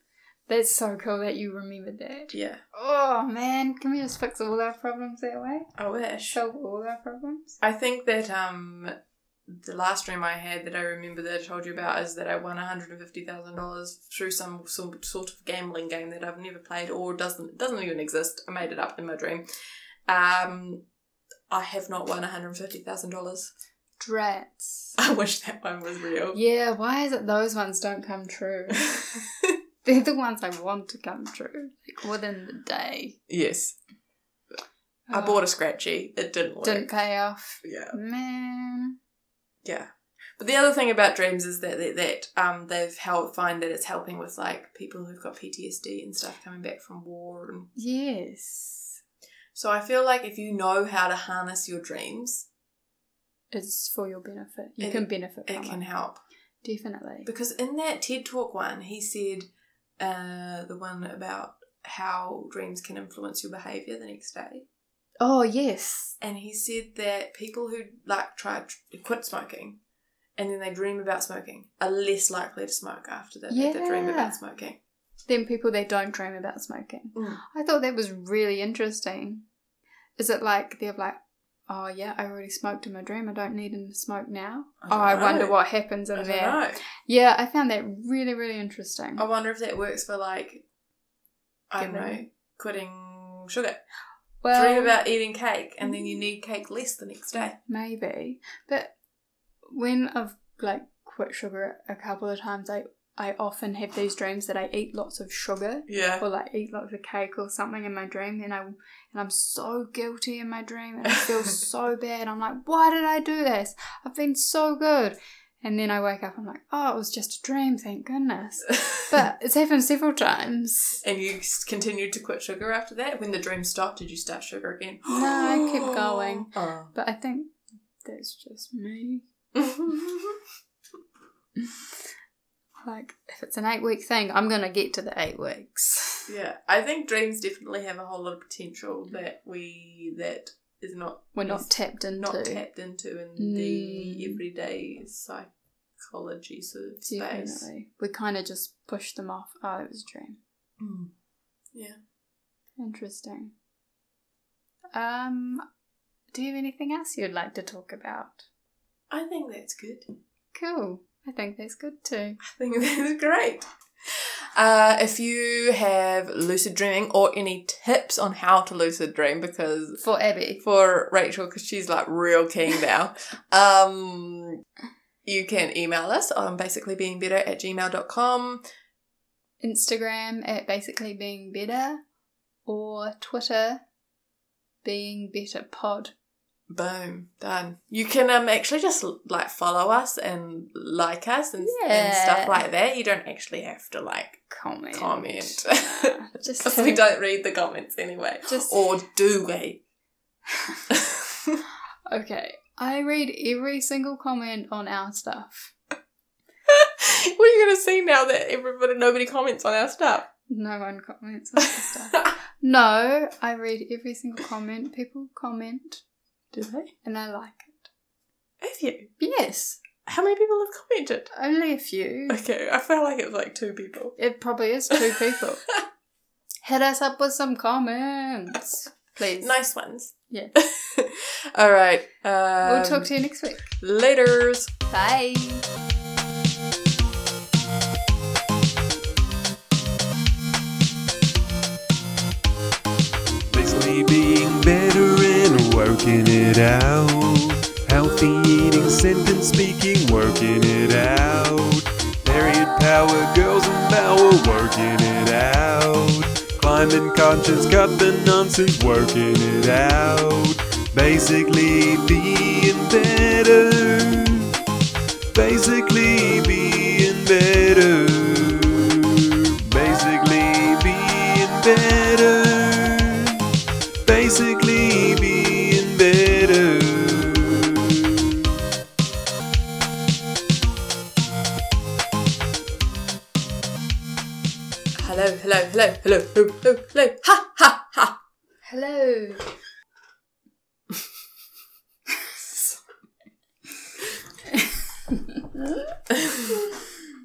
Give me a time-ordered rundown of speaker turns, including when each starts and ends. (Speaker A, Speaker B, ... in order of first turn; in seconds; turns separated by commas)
Speaker A: 0.5-5.7, Speaker B: 2.3-2.6, Speaker B: 5.8-6.4, Speaker A: 6.3-7.6, Speaker B: 7.6-8.9, Speaker B: 9.5-19.5, Speaker B: 20.1-20.8, Speaker B: 21.5-23.5, Speaker A: 24.0-25.0, Speaker B: 25.0-26.4, Speaker A: 26.3-29.2, Speaker B: 28.9-29.5, Speaker A: 29.8-33.2, Speaker B: 33.3-33.8, Speaker A: 35.1-35.5, Speaker B: 35.1-36.9, Speaker A: 36.6-39.0, Speaker B: 37.6-38.0, Speaker B: 40.4-47.7, Speaker A: 47.8-49.0, Speaker B: 49.5-52.5, Speaker A: 53.5-55.8, Speaker B: 54.8-56.2, Speaker A: 56.6-57.3, Speaker B: 57.2-59.5, Speaker B: 60.0-64.7, Speaker A: 65.2-66.2, Speaker B: 66.2-69.8, Speaker B: 70.4-74.8, Speaker A: 73.5-74.4, Speaker A: 75.3-79.4, Speaker B: 77.2-77.4, Speaker A: 80.2-89.2, Speaker B: 84.8-85.5, Speaker B: 86.1-86.8, Speaker B: 89.2-90.6, Speaker B: 91.7-93.8, Speaker A: 91.8-92.2, Speaker A: 94.4-95.0, Speaker B: 94.5-97.6, Speaker A: 97.7-98.9, Speaker A: 99.7-121.0, Speaker B: 105.9-106.2, Speaker B: 121.0-126.9, Speaker A: 125.1-129.2, Speaker B: 129.6-130.4, Speaker A: 131.6-131.8, Speaker A: 132.8-136.3, Speaker B: 136.3-147.7, Speaker A: 141.3-142.6, Speaker A: 143.4-144.4, Speaker A: 147.0-150.4, Speaker B: 150.8-151.1, Speaker A: 152.8-153.5, Speaker A: 154.9-155.7, Speaker A: 156.3-158.4, Speaker B: 159.1-160.1, Speaker A: 160.5-162.4, Speaker B: 162.4-170.0, Speaker A: 170.0-170.6, Speaker B: 170.6-174.6, Speaker B: 175.2-178.6, Speaker A: 179.6-182.0, Speaker A: 182.7-183.8, Speaker A: 184.8-186.1, Speaker B: 186.7-199.8, Speaker A: 191.6-192.6, Speaker A: 194.5-197.1, Speaker A: 198.5-198.8, Speaker A: 200.5-200.8, Speaker B: 200.9-201.6, Speaker A: 202.1-205.7, Speaker B: 206.7-210.3, Speaker A: 210.5-216.0, Speaker B: 216.5-216.9, Speaker A: 217.0-217.9, Speaker B: 218.6-219.1, Speaker A: 219.2-219.8, Speaker B: 220.0-221.3, Speaker A: 221.3-222.4, Speaker B: 222.3-224.2, Speaker A: 224.2-225.6, Speaker A: 226.6-229.6, Speaker B: 229.4-233.1, Speaker A: 232.6-233.7, Speaker B: 233.7-234.7, Speaker A: 234.9-235.7, Speaker C: 243.5-264.5, Speaker C: 265.3-273.4, Speaker C: 274.1-278.6, Speaker B: 285.0-288.2, Speaker A: 288.6-289.5, Speaker A: 292.1-292.8, Speaker A: 294.5-295.6